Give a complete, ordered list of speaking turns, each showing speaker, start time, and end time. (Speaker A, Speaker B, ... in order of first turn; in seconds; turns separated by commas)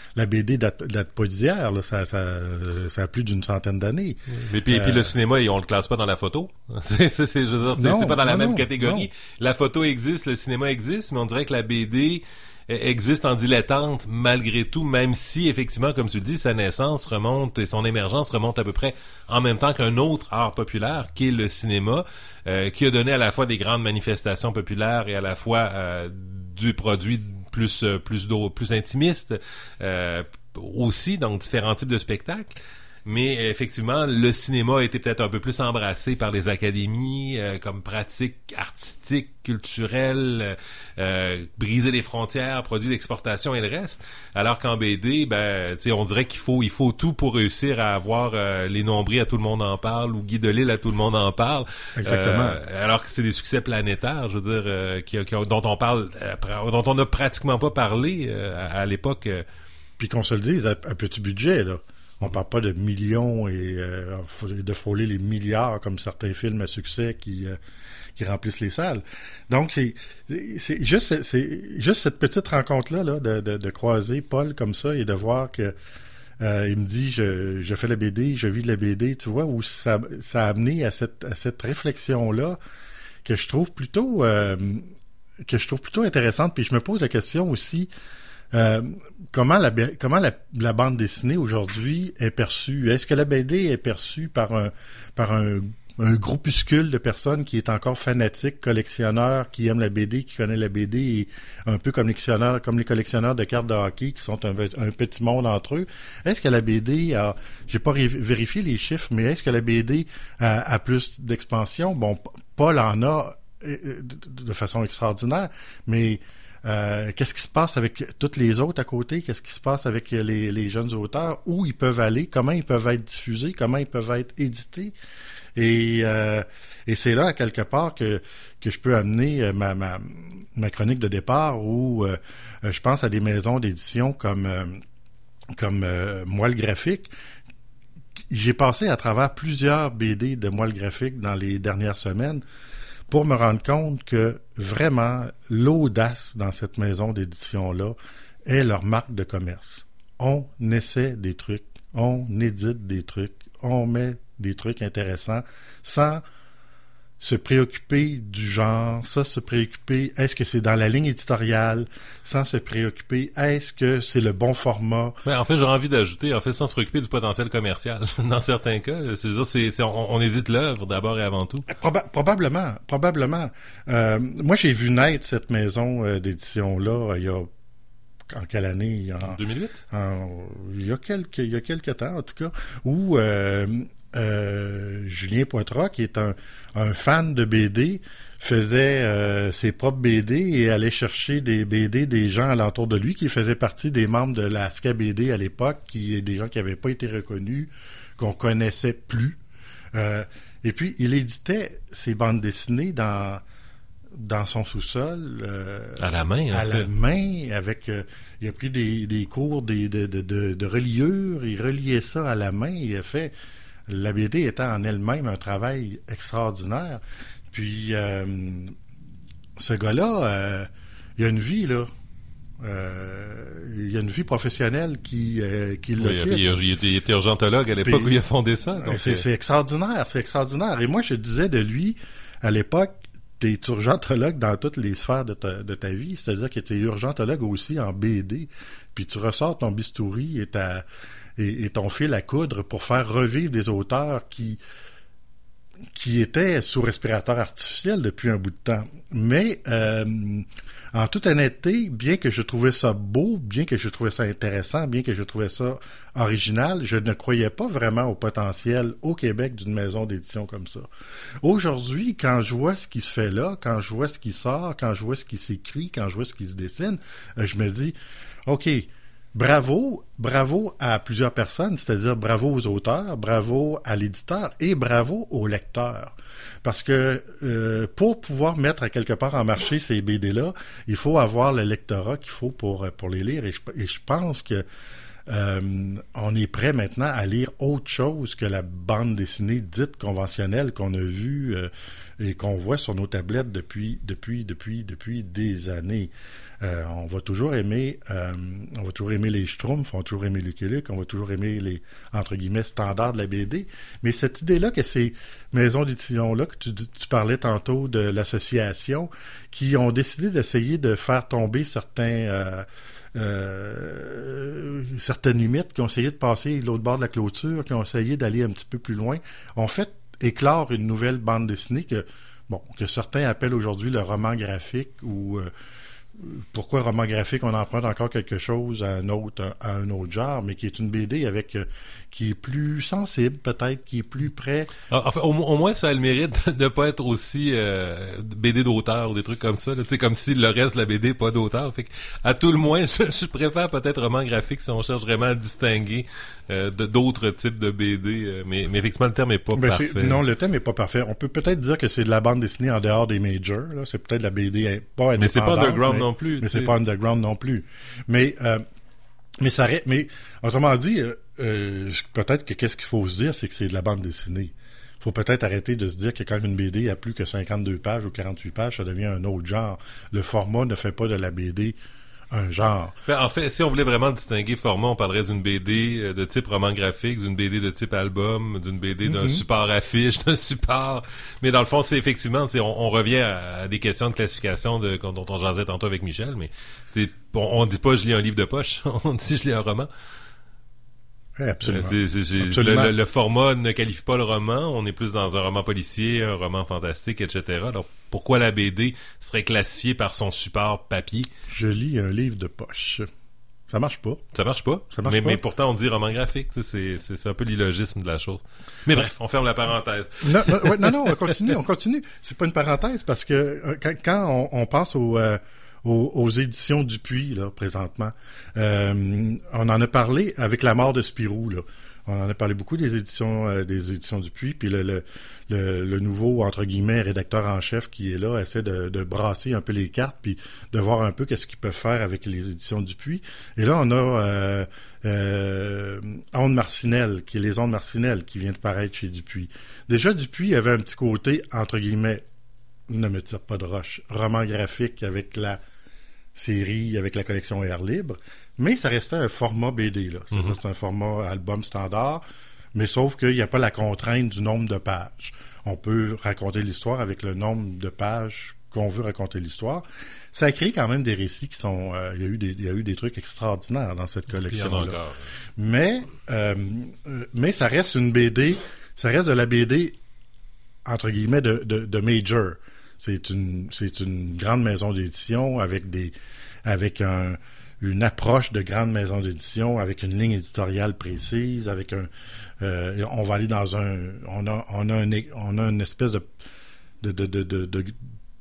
Speaker A: 0.1-5.1, Speaker B: 4.3-59.4, Speaker A: 7.8-9.1, Speaker A: 52.0-52.6, Speaker A: 60.0-67.6, Speaker A: 68.2-75.7, Speaker A: 76.4-82.6, Speaker A: 83.2-84.9, Speaker A: 85.5-87.9, Speaker A: 88.5-124.9, Speaker A: 125.5-134.8, Speaker A: 135.5-137.1, Speaker A: 138.3-142.4, Speaker A: 143.1-156.2, Speaker A: 157.2-165.2, Speaker B: 165.2-171.7, Speaker A: 171.7-177.5, Speaker A: 178.3-179.4, Speaker B: 179.2-179.8, Speaker A: 179.9-199.4, Speaker A: 199.9-203.4, Speaker A: 204.1-213.3, Speaker B: 206.0-206.9, Speaker A: 213.9-218.7, Speaker A: 219.6-221.9, Speaker A: 222.6-226.4, Speaker B: 226.0-229.2, Speaker A: 227.8-228.1, Speaker A: 228.8-240.8, Speaker A: 241.4-244.6, Speaker A: 245.9-260.9, Speaker A: 261.4-267.9, Speaker A: 268.4-284.6, Speaker A: 285.3-325.5, Speaker A: 326.2-334.7, Speaker B: 334.9-350.2, Speaker A: 349.5-358.6, Speaker B: 355.2-356.7, Speaker A: 359.4-371.8, Speaker A: 372.3-373.0, Speaker B: 373.1-389.9, Speaker A: 379.1-379.4, Speaker A: 391.4-392.9, Speaker B: 391.6-401.3, Speaker A: 401.5-403.1, Speaker A: 403.7-404.2, Speaker B: 404.3-411.4, Speaker A: 404.9-405.4, Speaker A: 410.2-442.2, Speaker A: 442.9-445.6, Speaker A: 446.3-452.2, Speaker A: 452.7-465.0, Speaker B: 464.5-465.2, Speaker A: 465.6-469.9, Speaker A: 470.8-476.1, Speaker A: 476.6-482.1, Speaker A: 482.6-486.2, Speaker A: 487.0-487.9